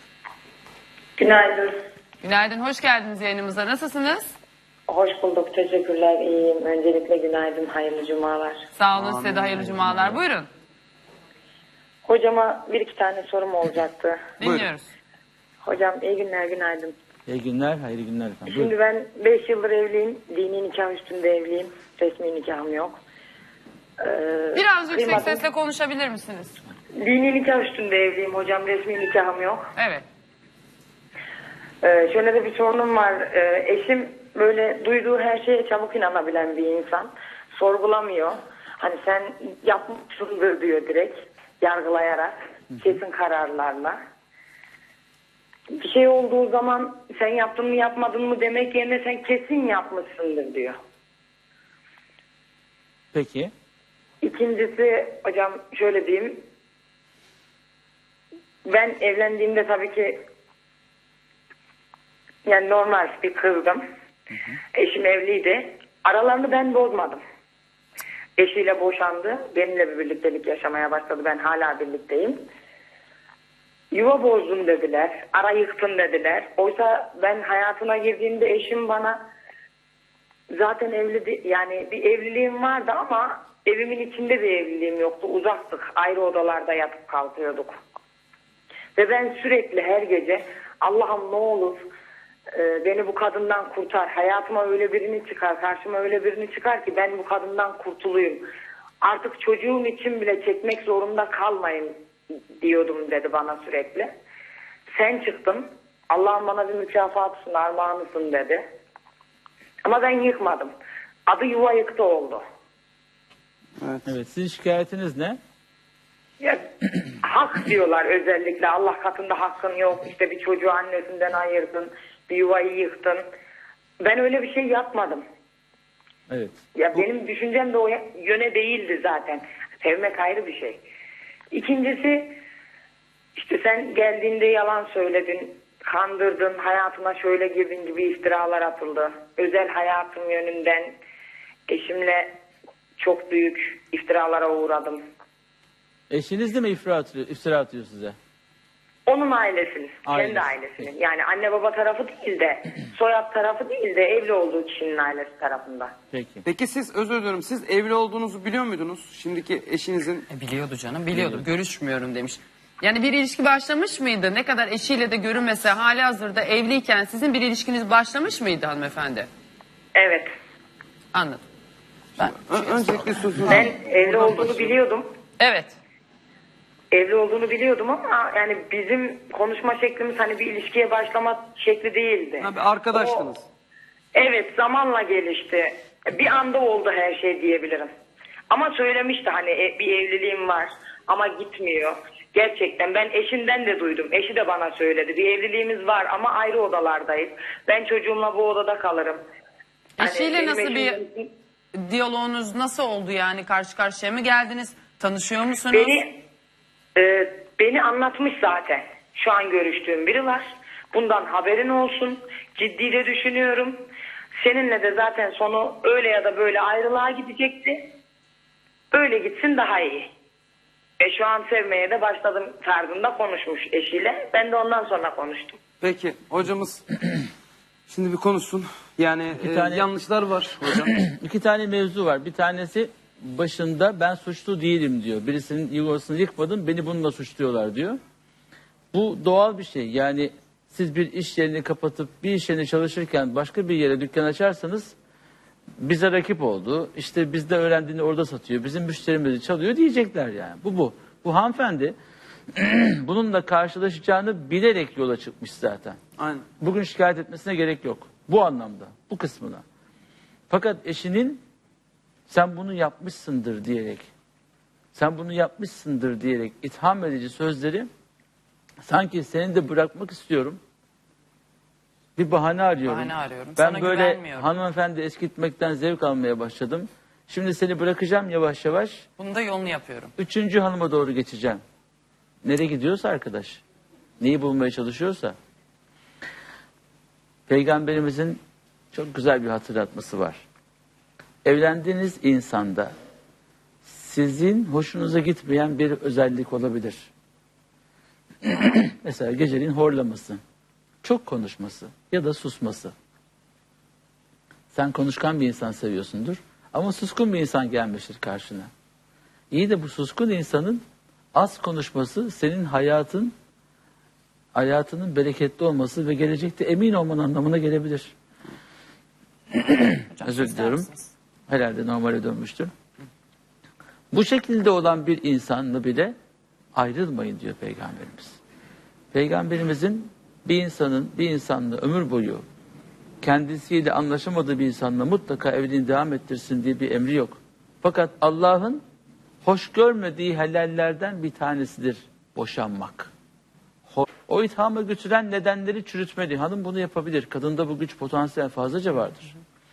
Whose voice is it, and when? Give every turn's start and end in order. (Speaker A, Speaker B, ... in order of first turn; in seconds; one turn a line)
Speaker A: 1.2-1.7
Speaker B: 2.2-4.3
Speaker A: 4.9-8.6
Speaker B: 8.8-10.5
Speaker C: 8.9-9.6
Speaker D: 9.6-10.2
Speaker A: 12.1-14.2
Speaker B: 14.4-14.9
Speaker C: 14.4-14.7
Speaker A: 15.6-16.9
Speaker D: 17.3-18.7
Speaker A: 18.5-23.0
Speaker A: 24.0-25.4
Speaker B: 24.5-26.6
Speaker A: 26.9-29.7
Speaker B: 29.8-30.0
Speaker A: 31.8-44.0
Speaker A: 45.7-50.8
Speaker D: 53.1-53.5
Speaker A: 54.2-56.4
Speaker A: 58.7-60.2
Speaker A: 62.5-63.8
Speaker A: 64.7-67.2
Speaker A: 68.4-72.4
Speaker A: 73.9-79.2
Speaker A: 80.5-87.8
Speaker A: 89.0-91.8
Speaker A: 92.5-98.4
Speaker A: 99.0-101.9
Speaker A: 102.6-104.1
Speaker A: 104.9-108.6
Speaker A: 109.8-110.7
Speaker A: 111.3-112.4
Speaker C: 113.8-114.1
Speaker D: 114.0-115.4
Speaker A: 116.4-116.7
Speaker A: 117.2-123.2
Speaker A: 124.0-125.2
Speaker D: 126.3-126.5
Speaker A: 126.7-130.8
Speaker A: 131.5-132.4
Speaker A: 133.3-140.9
Speaker A: 141.7-142.3
Speaker A: 143.0-145.0
Speaker D: 146.1-148.2
Speaker A: 149.1-155.9
Speaker D: 150.0-150.9
Speaker D: 156.1-156.4
Speaker C: 156.4-160.3
Speaker B: 160.3-169.3
Speaker D: 161.1-161.4
Speaker A: 169.9-170.3
Speaker B: 171.1-171.4
Speaker B: 172.2-173.6
Speaker C: 172.4-174.7
Speaker A: 173.5-175.1
Speaker B: 175.4-175.8
Speaker A: 176.9-183.3
Speaker C: 182.4-183.4
Speaker A: 184.1-187.9
Speaker A: 188.5-199.2
Speaker B: 200.0-201.0
Speaker A: 200.0-201.3
Speaker B: 201.7-206.0
Speaker A: 205.7-206.2
Speaker A: 206.9-213.8
Speaker A: 214.4-217.9
Speaker A: 218.9-220.1
Speaker A: 221.0-225.6
Speaker C: 225.8-226.9
Speaker C: 227.9-230.9
Speaker D: 229.4-229.9
Speaker D: 230.9-238.0
Speaker D: 238.9-244.9
Speaker D: 245.8-251.9
Speaker D: 252.5-256.0
Speaker C: 256.2-256.5
Speaker D: 256.6-259.6
Speaker D: 260.5-261.4
Speaker D: 262.3-264.1
Speaker D: 264.9-267.9
Speaker D: 268.8-270.6
Speaker D: 272.1-279.1
Speaker B: 272.9-274.5
Speaker B: 279.2-280.1
Speaker D: 280.2-281.6
Speaker D: 282.4-283.6
Speaker D: 284.2-285.3
Speaker D: 287.5-288.4
Speaker D: 288.9-290.4
Speaker D: 291.4-292.9
Speaker D: 293.8-297.1
Speaker D: 298.4-300.4
Speaker D: 301.0-302.9
Speaker D: 304.7-308.7
Speaker D: 309.5-310.8
Speaker D: 311.3-313.3
Speaker D: 314.5-318.1
Speaker D: 319.5-320.9
Speaker B: 320.1-321.1
Speaker D: 321.5-322.7
Speaker D: 324.1-326.1
Speaker D: 326.7-328.4
Speaker D: 329.1-332.4
Speaker D: 333.2-338.8
Speaker D: 339.4-343.1
Speaker D: 343.9-349.3